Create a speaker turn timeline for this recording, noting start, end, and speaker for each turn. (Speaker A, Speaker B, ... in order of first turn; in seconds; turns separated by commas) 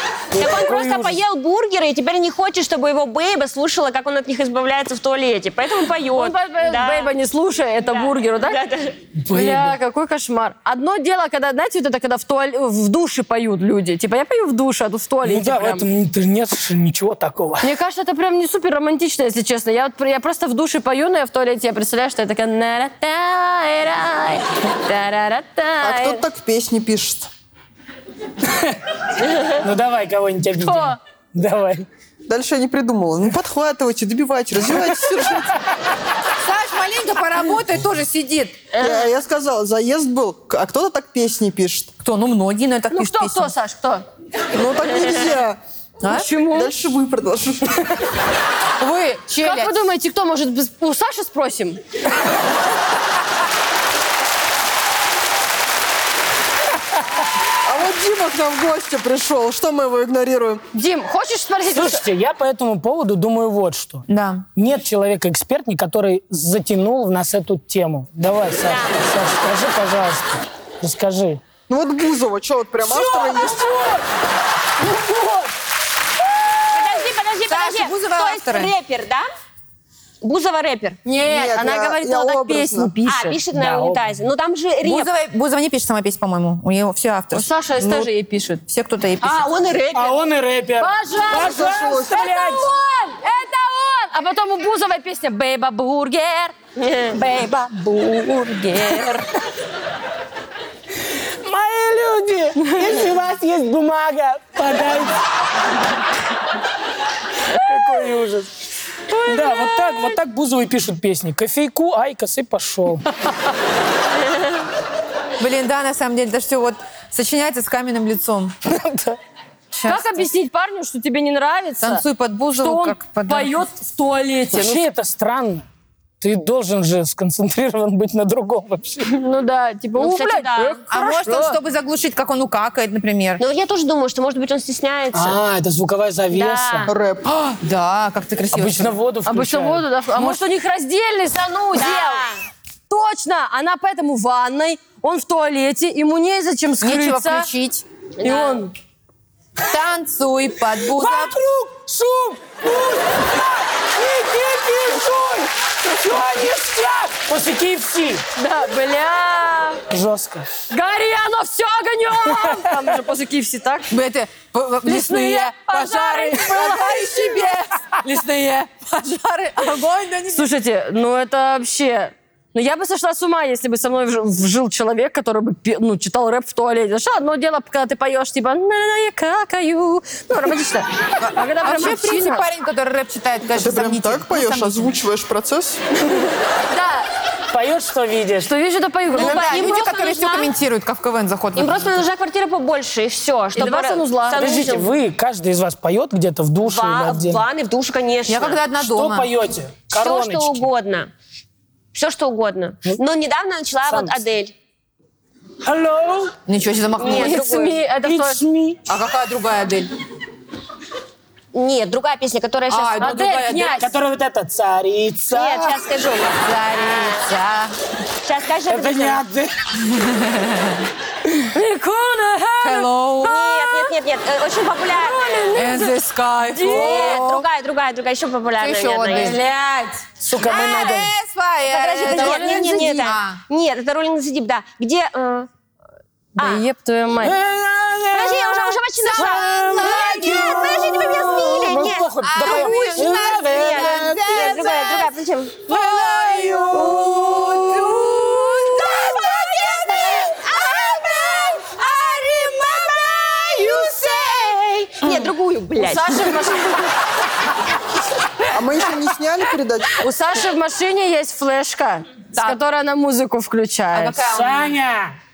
Speaker A: 0.3-1.2, Speaker B: 0.3-7.1, Speaker C: 6.2-8.6, Speaker B: 7.8-9.0, Speaker A: 9.2-9.8, Speaker C: 9.3-15.9, Speaker A: 15.2-17.7, Speaker C: 17.6-26.2, Speaker D: 25.8-27.3, Speaker A: 28.4-28.8, Speaker A: 29.6-31.9, Speaker C: 30.6-31.0, Speaker D: 32.3-35.5, Speaker E: 36.3-38.6, Speaker C: 38.7-39.1, Speaker D: 38.8-41.9, Speaker E: 42.0-43.5, Speaker C: 42.9-44.0, Speaker D: 44.5-45.6, Speaker E: 46.0-46.3, Speaker C: 46.0-46.7, Speaker D: 46.2-47.9, Speaker E: 48.8-49.8, Speaker C: 49.4-51.8, Speaker D: 57.6-60.6, Speaker C: 60.7-62.0, Speaker A: 61.7-64.0, Speaker E: 64.1-64.5, Speaker A: 64.5-71.4, Speaker B: 68.6-69.0, Speaker D: 71.7-73.7, Speaker A: 72.8-74.0, Speaker A: 74.8-75.5, Speaker B: 76.7-79.2, Speaker E: 77.5-78.7, Speaker B: 80.2-81.0, Speaker C: 81.0-83.4, Speaker D: 81.2-82.9, Speaker B: 83.0-85.1, Speaker A: 83.5-84.0, Speaker E: 84.8-88.1, Speaker C: 87.3-88.6, Speaker E: 88.6-89.5, Speaker B: 89.2-90.2, Speaker A: 89.9-92.7, Speaker C: 90.8-96.5, Speaker D: 91.3-92.2, Speaker B: 96.8-97.2, Speaker C: 97.1-99.0, Speaker B: 98.7-99.2, Speaker A: 101.2-105.2, Speaker C: 102.6-102.9, Speaker A: 107.5-108.5, Speaker C: 107.6-108.0, Speaker C: 109.1-110.2, Speaker A: 109.2-113.0, Speaker E: 115.4-118.5, Speaker A: 118.6-119.2, Speaker E: 119.7-120.3, Speaker C: 119.8-122.0, Speaker E: 121.8-123.6, Speaker C: 122.6-124.8, Speaker A: 124.5-125.7, Speaker A: 126.2-129.1, Speaker C: 129.0-131.6, Speaker B: 130.0-130.8, Speaker E: 130.9-133.4, Speaker B: 133.4-135.4, Speaker A: 135.1-136.9, Speaker B: 136.3-136.9, Speaker D: 136.9-137.5, Speaker E: 137.6-138.9, Speaker A: 138.5-139.9, Speaker C: 139.2-142.3, Speaker B: 141.7-142.4, Speaker C: 142.9-147.5, Speaker E: 146.8-147.8, Speaker B: 148.2-148.6, Speaker C: 148.2-148.7, Speaker E: 149.6-151.4, Speaker A: 150.8-158.2, Speaker C: 154.8-155.4, Speaker C: 158.3-159.8, Speaker A: 159.9-160.5, Speaker C: 160.7-163.9, Speaker A: 162.2-162.9, Speaker E: 163.9-170.5, Speaker C: 164.8-167.7, Speaker C: 170.3-182.5, Speaker E: 181.2-184.9, Speaker D: 183.5-185.8, Speaker C: 186.7-187.1, Speaker A: 187.5-188.5, Speaker C: 188.4-189.6, Speaker E: 189.1-192.0, Speaker B: 189.2-190.5, Speaker B: 191.6-194.9, Speaker C: 193.6-194.5, Speaker A: 194.4-197.4, Speaker B: 196.6-198.6, Speaker E: 198.3-199.3, Speaker A: 198.8-200.7, Speaker B: 199.9-201.1, Speaker B: 201.9-204.5, Speaker A: 203.9-204.2, Speaker A: 205.6-206.3, Speaker E: 206.4-207.4, Speaker B: 207.0-207.8, Speaker C: 207.0-208.4, Speaker A: 208.0-208.8, Speaker E: 208.9-209.9, Speaker B: 211.5-213.2, Speaker E: 212.7-213.8, Speaker C: 213.0-213.9, Speaker A: 213.7-215.7, Speaker B: 215.3-217.2, Speaker E: 216.4-217.8, Speaker B: 218.2-219.2, Speaker A: 218.7-219.8, Speaker E: 219.9-220.8, Speaker C: 221.5-223.9, Speaker E: 222.6-223.4, Speaker B: 223.2-225.6, Speaker C: 224.9-227.2, Speaker E: 225.5-227.5, Speaker B: 226.6-229.4, Speaker E: 228.6-233.4, Speaker A: 230.2-231.1, Speaker B: 230.6-230.9, Speaker B: 231.6-235.5, Speaker C: 232.1-233.1, Speaker B: 236.4-236.6, Speaker C: 236.4-237.4, Speaker A: 237.2-244.7, Speaker B: 238.1-245.6, Speaker E: 239.0-245.1, Speaker A: 245.7-247.9, Speaker E: 245.7-255.2, Speaker B: 246.9-256.3, Speaker C: 255.8-256.9, Speaker D: 258.5-260.0, Speaker C: 260.0-264.2, Speaker E: 262.3-262.6, Speaker E: 263.9-264.7, Speaker A: 264.2-265.1